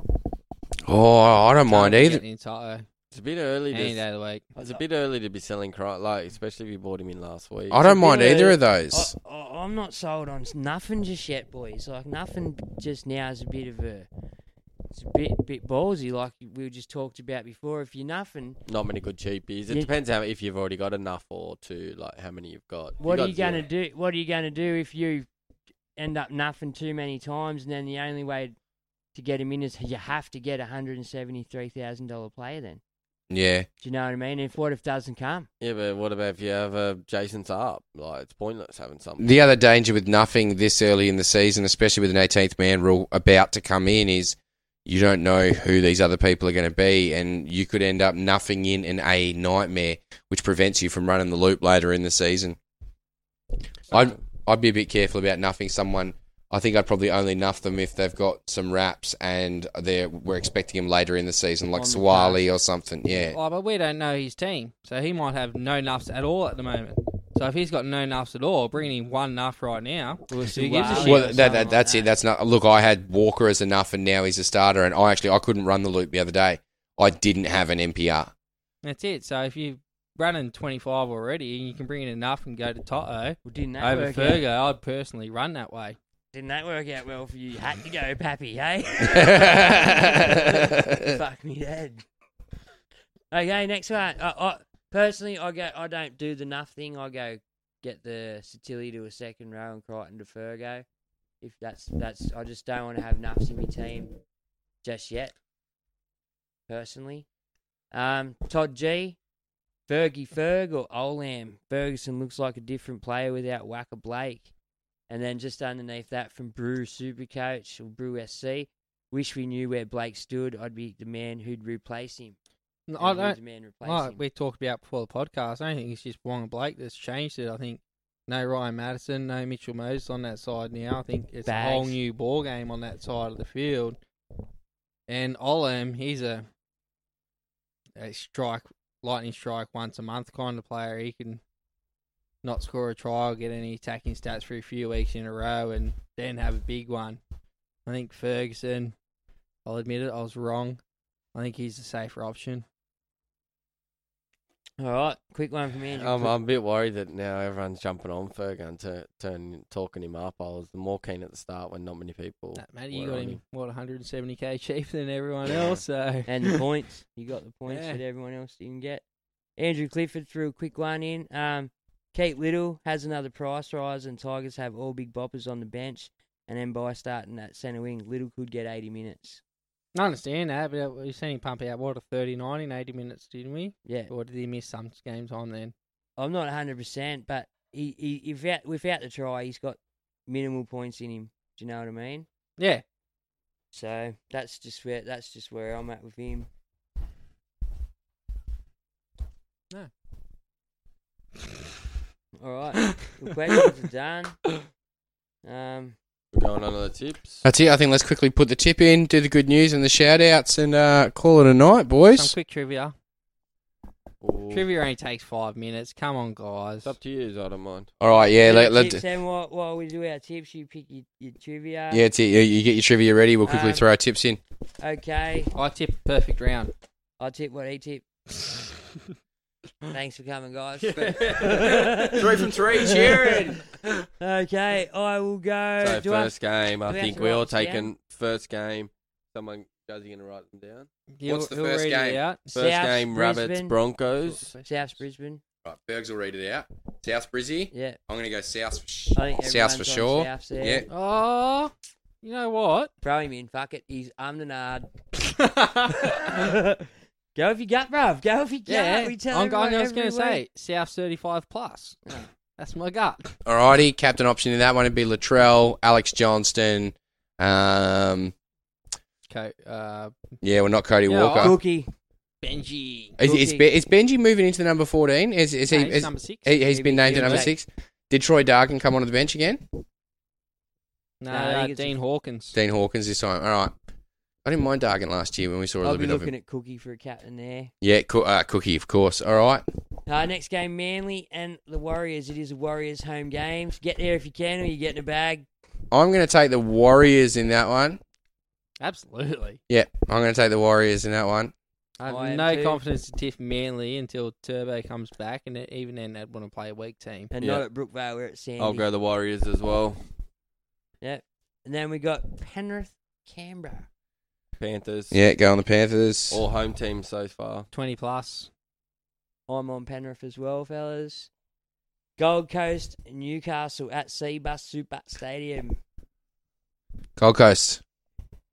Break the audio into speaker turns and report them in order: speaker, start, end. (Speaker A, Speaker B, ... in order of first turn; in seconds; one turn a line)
Speaker A: 0.9-2.2
Speaker B: 1.7-2.9
Speaker C: 3.1-4.0
Speaker B: 3.7-4.5
Speaker C: 4.6-8.0
Speaker A: 7.7-9.1
Speaker D: 7.9-14.1
Speaker D: 14.9-18.6
Speaker C: 18.7-23.7
Speaker D: 23.0-25.3
Speaker D: 26.0-28.6
Speaker D: 29.1-32.8
Speaker A: 33.3-33.7
Speaker D: 33.8-35.5
Speaker C: 35.6-39.3
Speaker A: 39.2-52.6
Speaker A: 53.9-63.4
Speaker D: 61.8-62.4
Speaker B: 63.2-71.6
Speaker D: 70.3-72.1
Speaker A: 71.0-78.3
Speaker B: 78.8-86.0
Speaker D: 83.5-84.5
Speaker D: 86.3-92.0
Speaker A: 89.1-91.1
Speaker D: 93.3-100.8
Speaker D: 101.4-104.2
Speaker D: 104.8-105.3
Speaker D: 106.7-107.3
Speaker D: 107.9-109.2
Speaker D: 109.9-114.5
Speaker D: 115.1-122.4
Speaker B: 122.9-134.0
Speaker D: 123.0-124.2
Speaker D: 131.4-132.0
Speaker B: 135.1-136.5
Speaker B: 138.0-141.4
Speaker B: 142.4-147.2
Speaker B: 147.9-148.9
Speaker B: 149.7-150.8
Speaker B: 151.3-152.7
Speaker D: 154.8-156.3
Speaker C: 156.0-163.4
Speaker B: 162.6-166.6
Speaker C: 165.5-165.8
Speaker D: 166.3-169.0
Speaker B: 167.7-168.0
Speaker D: 169.6-179.4
Speaker B: 179.9-185.7
Speaker D: 183.8-184.1
Speaker D: 186.2-192.3
Speaker B: 192.6-192.8
Speaker D: 193.7-196.5
Speaker D: 202.4-204.4
Speaker D: 205.4-206.0
Speaker C: 206.3-207.4
Speaker A: 207.4-212.3
Speaker B: 212.1-212.9
Speaker C: 214.2-214.7
Speaker B: 214.5-216.9
Speaker C: 216.8-217.9
Speaker A: 218.0-219.0
Speaker D: 218.1-222.0
Speaker A: 221.9-224.4
Speaker D: 223.4-223.9
Speaker D: 224.8-225.5
Speaker B: 225.6-226.7
Speaker D: 227.2-228.1
Speaker D: 229.9-233.6
Speaker C: 231.0-231.4
Speaker A: 232.2-233.6
Speaker C: 232.3-233.5
Speaker D: 234.2-237.9
Speaker C: 235.8-240.9
Speaker B: 241.2-242.6
Speaker A: 241.3-242.2
Speaker C: 242.5-244.6
Speaker D: 242.6-243.8
Speaker D: 244.6-245.4
Speaker A: 245.6-250.9
Speaker D: 247.7-248.0
Speaker D: 249.2-250.9
Speaker B: 250.9-252.9
Speaker D: 253.0-254.9
Speaker B: 255.3-256.3
Speaker D: 256.0-260.4
Speaker B: 258.7-262.0
Speaker B: 262.6-263.4
Speaker A: 263.5-268.3
Speaker B: 269.3-270.1
Speaker A: 270.4-271.6
Speaker B: 271.1-271.6
Speaker D: 271.4-271.9
Speaker B: 272.4-273.2
Speaker A: 273.2-279.6
Speaker D: 273.2-273.7
Speaker B: 275.7-276.5
Speaker D: 276.7-277.6
Speaker B: 277.1-277.5
Speaker B: 281.2-282.6
Speaker D: 281.3-282.0
Speaker A: 282.5-283.8
Speaker A: 284.4-286.3
Speaker D: 285.8-287.7
Speaker A: 287.8-289.6
Speaker D: 290.1-295.5
Speaker A: 295.9-298.0
Speaker B: 298.8-299.6
Speaker A: 299.7-301.5
Speaker B: 302.0-307.3
Speaker D: 302.0-302.8
Speaker D: 307.3-308.9
Speaker C: 307.4-307.6
Speaker C: 308.6-310.0
Speaker D: 311.0-313.9
Speaker C: 314.6-315.2
Speaker A: 315.1-316.4
Speaker C: 316.3-317.7
Speaker B: 317.7-318.5
Speaker D: 319.5-321.3
Speaker D: 322.2-325.8
Speaker A: 327.2-327.8